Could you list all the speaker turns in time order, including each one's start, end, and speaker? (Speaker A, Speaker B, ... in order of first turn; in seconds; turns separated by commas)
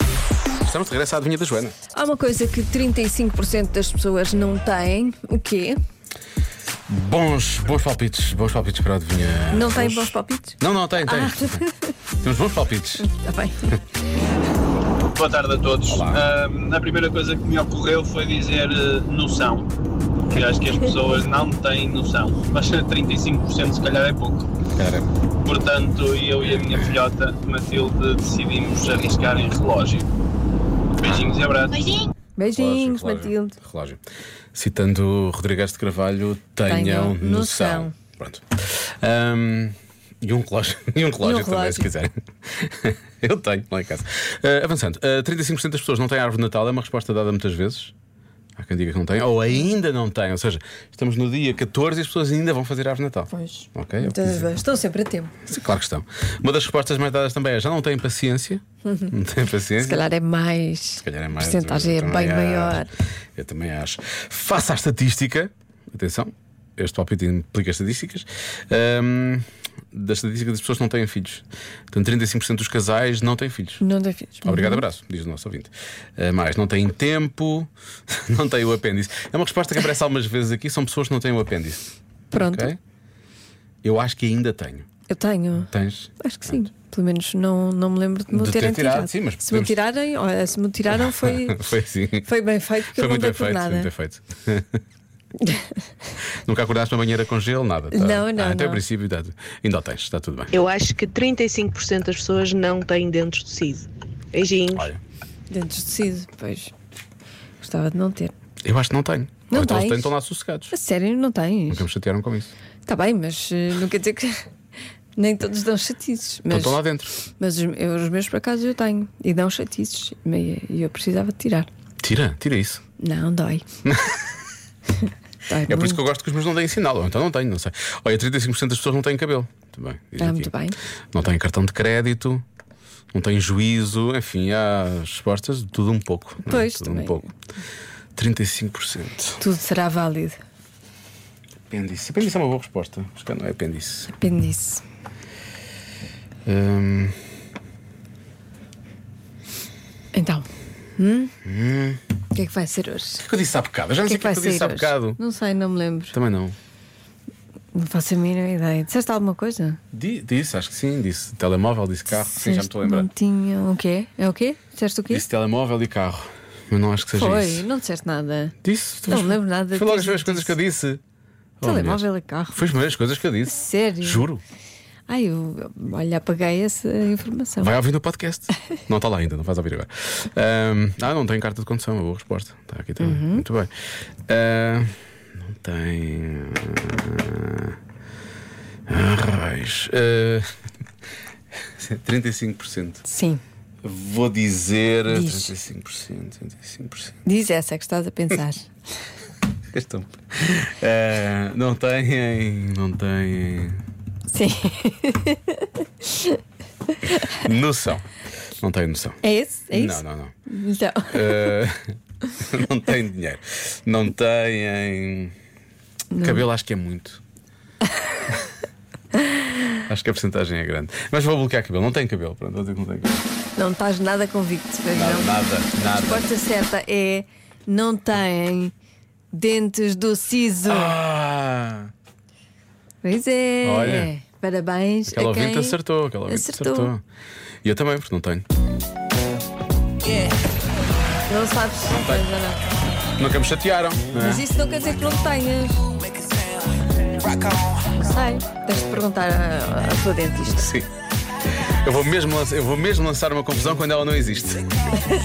Speaker A: 0.6-1.8, Speaker B: 1.9-5.8, Speaker A: 6.9-11.7, Speaker B: 9.5-11.9, Speaker A: 12.2-13.1, Speaker B: 13.0-13.8, Speaker C: 15.1-19.7, Speaker A: 15.9-16.2, Speaker C: 20.3-24.5, Speaker A: 24.6-25.1, Speaker C: 25.4-30.1, Speaker C: 31.0-32.1, Speaker B: 32.4-33.6, Speaker A: 32.4-34.0, Speaker A: 34.5-47.9, Speaker B: 36.7-37.9, Speaker B: 41.2-41.9, Speaker A: 48.6-54.5, Speaker B: 53.3-55.4, Speaker A: 55.4-60.1, Speaker B: 58.9-59.1, Speaker B: 59.8-62.9, Speaker A: 61.0-73.8, Speaker B: 73.8-74.8, Speaker A: 74.4-82.8, Speaker B: 82.3-82.7, Speaker A: 83.8-84.9, Speaker B: 85.1-91.6, Speaker A: 85.6-86.7, Speaker A: 88.3-89.8, Speaker A: 90.9-92.3, Speaker B: 92.2-93.9, Speaker A: 92.9-94.8, Speaker B: 95.4-95.7, Speaker A: 96.2-100.5, Speaker B: 97.9-98.8, Speaker D: 100.5-104.9, Speaker A: 104.7-105.0, Speaker B: 105.5-106.7, Speaker B: 107.6-108.3, Speaker A: 108.7-110.7, Speaker B: 109.5-110.2, Speaker B: 110.7-111.8, Speaker A: 111.7-112.5, Speaker B: 112.9-114.5, Speaker B: 115.2-121.7, Speaker A: 116.5-117.2, Speaker A: 122.0-122.8, Speaker B: 123.0-123.7, Speaker A: 123.8-124.2, Speaker B: 125.0-126.0, Speaker A: 125.7-130.5, Speaker B: 130.2-130.8, Speaker A: 131.1-132.4, Speaker A: 133.1-137.3, Speaker B: 136.4-137.3, Speaker A: 138.2-139.4, Speaker B: 139.4-140.4, Speaker A: 141.7-144.1, Speaker B: 144.1-144.8, Speaker A: 146.5-147.2, Speaker B: 150.1-151.3, Speaker A: 151.4-152.0, Speaker B: 152.3-153.2, Speaker A: 153.2-155.2, Speaker B: 154.0-156.2, Speaker A: 156.1-156.6, Speaker B: 157.7-159.8, Speaker A: 159.9-163.1, Speaker B: 162.2-165.3, Speaker A: 165.1-167.7, Speaker B: 167.1-168.6, Speaker A: 168.6-171.0, Speaker B: 169.1-170.6, Speaker A: 171.6-174.4, Speaker B: 171.6-172.7, Speaker B: 173.5-174.3, Speaker B: 175.1-177.8, Speaker A: 177.6-183.7, Speaker B: 183.0-183.4, Speaker A: 184.3-187.8, Speaker A: 188.9-190.5, Speaker A: 191.8-193.0, Speaker B: 193.1-193.4, Speaker A: 193.8-197.2, Speaker B: 195.1-195.5, Speaker B: 197.2-198.7, Speaker A: 199.7-203.8, Speaker B: 204.3-207.4, Speaker A: 207.1-208.1, Speaker A: 208.6-209.2, Speaker B: 209.2-211.6, Speaker A: 209.7-210.3, Speaker A: 211.1-211.8, Speaker A: 212.4-215.3, Speaker B: 216.1-216.4, Speaker A: 216.2-217.2, Speaker A: 219.8-223.2, Speaker B: 223.6-228.7, Speaker A: 224.9-226.3, Speaker B: 229.3-231.0, Speaker A: 230.7-231.9, Speaker B: 233.0-236.9, Speaker A: 233.6-234.1, Speaker A: 235.1-237.0, Speaker A: 237.6-238.4, Speaker B: 241.3-242.8, Speaker A: 241.8-242.3, Speaker A: 243.2-244.5, Speaker B: 244.2-245.9, Speaker B: 247.9-250.7, Speaker A: 250.4-250.9, Speaker A: 251.8-254.7